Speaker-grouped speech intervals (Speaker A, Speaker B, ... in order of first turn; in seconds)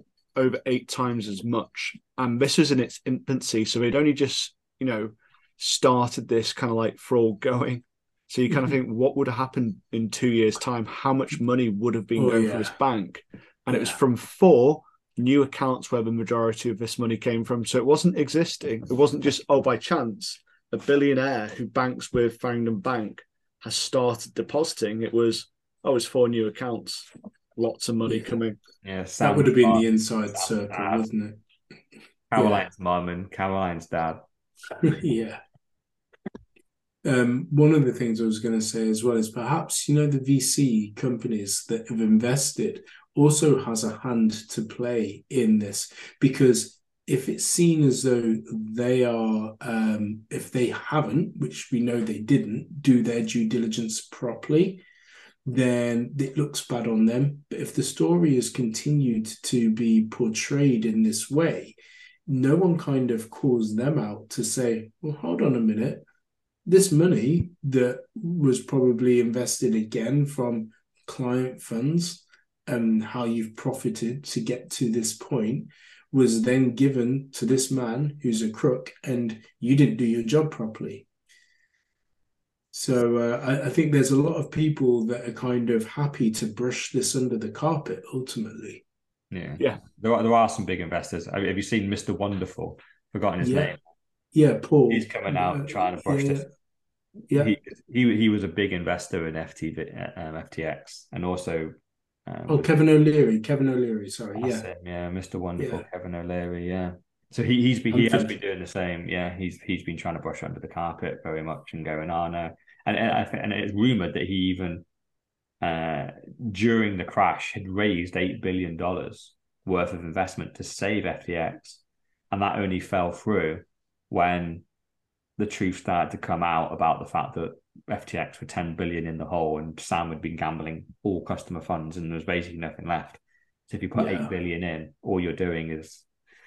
Speaker A: 0.3-28.6
Speaker B: 12.2-12.7, 29.2-31.4, 32.3-32.6, 34.8-35.4, 37.0-54.8, 55.4-66.0, 66.7-81.0, 82.7-88.8, 93.4-93.7, 94.3-96.5, 102.5-104.7, 105.6-105.8, 107.9-108.3, 133.9-134.3
Speaker C: 28.8-31.1, 32.3-34.2, 89.3-93.8, 94.9-96.4, 97.3-101.7, 102.2-102.7, 104.3-114.8, 115.6-121.8, 122.3-124.6, 125.4-136.0